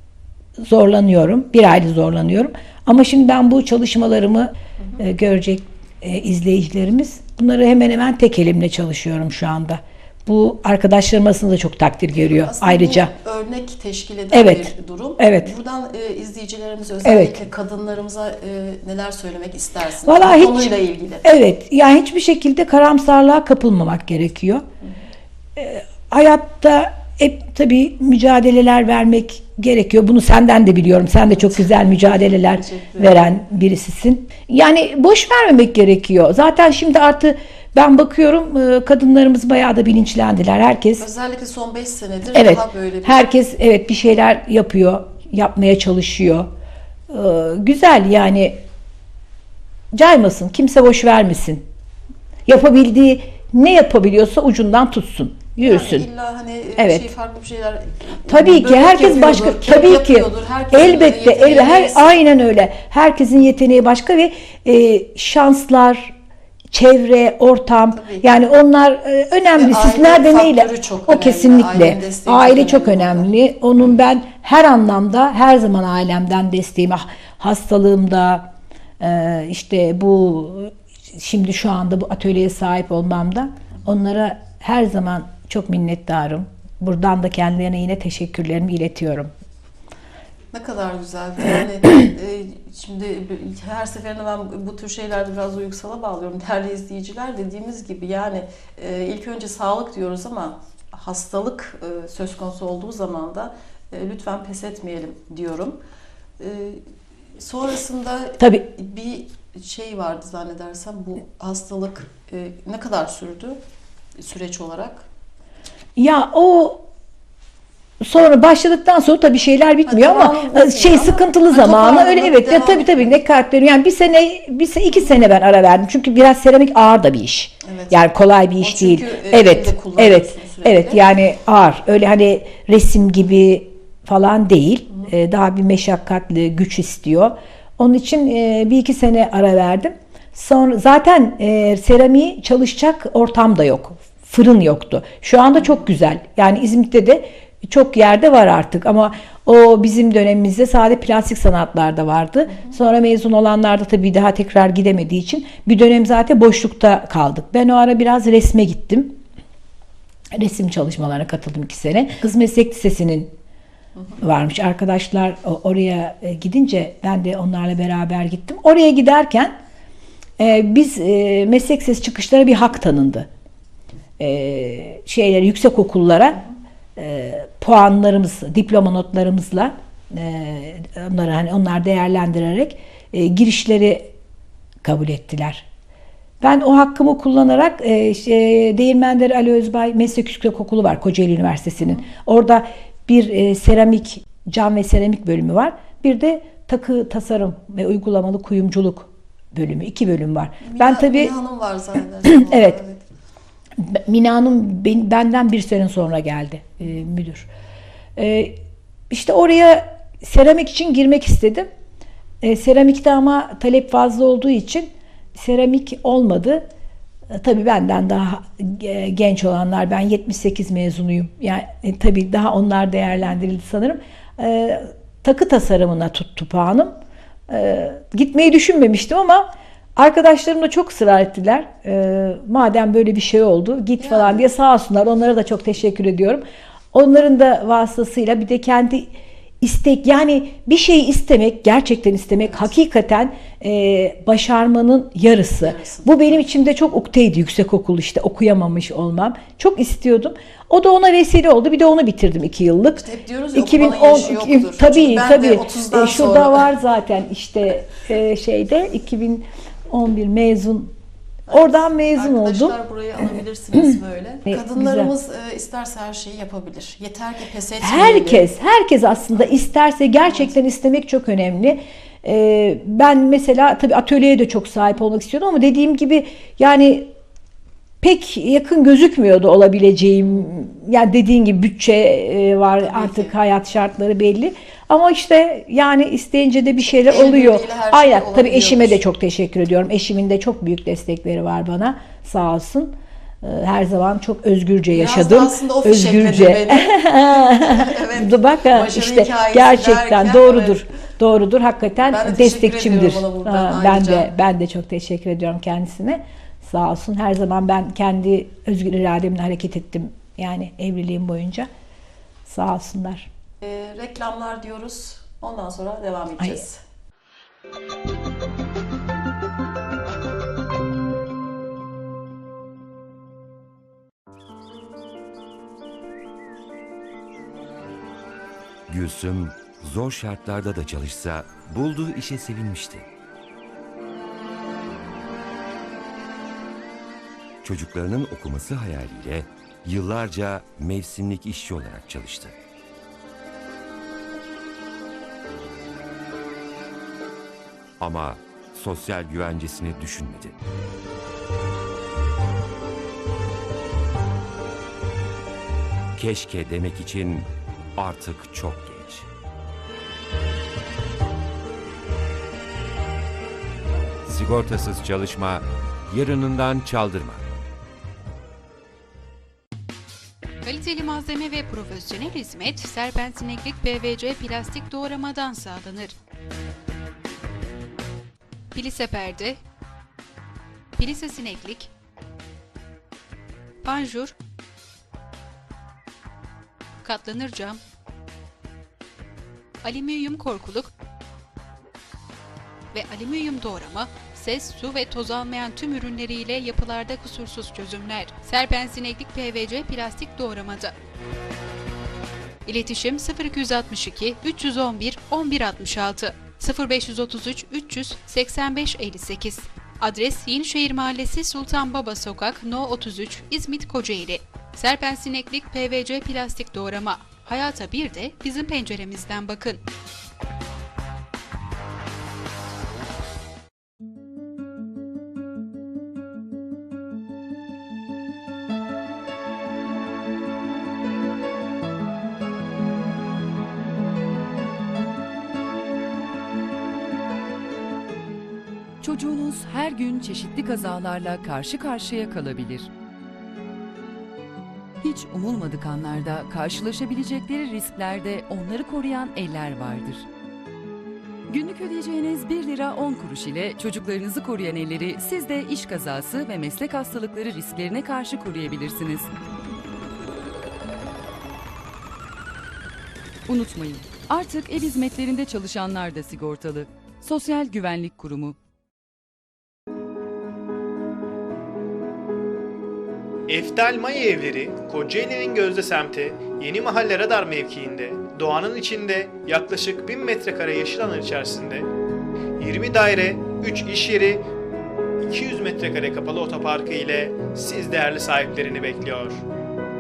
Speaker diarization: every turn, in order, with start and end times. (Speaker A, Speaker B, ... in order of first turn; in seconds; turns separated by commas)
Speaker A: 0.6-13.1, Speaker B: 12.2-21.3, Speaker A: 14.3-15.5, Speaker A: 17.1-17.4, Speaker A: 20.0-24.7, Speaker A: 25.6-41.1, Speaker B: 31.5-33.3, Speaker B: 41.0-43.3, Speaker A: 42.3-46.5, Speaker A: 47.1-48.6, Speaker A: 49.9-51.6, Speaker A: 52.5-56.1, Speaker B: 55.6-62.2, Speaker A: 56.8-57.1, Speaker A: 58.3-66.2, Speaker A: 66.7-78.5, Speaker B: 67.9-68.3, Speaker B: 69.6-73.3, Speaker A: 79.0-89.3, Speaker B: 90.5-105.8, Speaker B: 106.4-106.8, Speaker B: 107.4-113.6, Speaker A: 108.4-108.7, Speaker B: 114.2-115.1, Speaker A: 116.0-116.8, Speaker A: 118.0-159.2, Speaker B: 119.9-123.1, Speaker B: 127.6-128.1, Speaker B: 128.6-131.1, Speaker A: 160.3-163.3, Speaker A: 164.2-169.5, Speaker A: 170.4-173.3, Speaker A: 174.2-176.4, Speaker A: 177.0-184.1, Speaker A: 184.8-185.7, Speaker A: 186.4-201.3, Speaker B: 200.6-203.0, Speaker A: 202.2-202.8, Speaker A: 203.8-207.5, Speaker A: 208.2-208.6, Speaker A: 209.1-211.7, Speaker A: 212.4-216.7, Speaker A: 217.3-227.0, Speaker A: 227.5-260.9, Speaker B: 234.0-234.5, Speaker B: 242.4-242.7, Speaker B: 245.6-246.4, Speaker B: 253.0-256.7, Speaker B: 261.5-268.5, Speaker A: 261.5-262.8, Speaker A: 264.5-265.1, Speaker A: 267.8-277.1, Speaker A: 278.0-311.7, Speaker B: 282.8-283.3, Speaker B: 287.1-289.0, Speaker B: 294.9-300.8, Speaker B: 302.1-304.3, Speaker A: 312.4-313.3, Speaker B: 313.6-316.8, Speaker C: 328.9-333.1, Speaker C: 337.6-342.6, Speaker C: 348.0-350.6, Speaker C: 356.1-359.3, Speaker C: 364.2-367.4, Speaker D: 370.6-376.1, Speaker D: 378.7-379.6, Speaker D: 381.0-381.9, Speaker D: 383.8-384.3, Speaker D: 387.0-387.8, Speaker D: 389.8-390.9, Speaker D: 392.9-400.9, Speaker D: 402.7-419.8, Speaker E: 439.0-442.9, Speaker E: 445.0-450.2, Speaker E: 451.5-459.3, Speaker E: 463.5-468.6, Speaker F: 473.5-481.9, Speaker F: 482.6-484.4, Speaker F: 485.2-489.4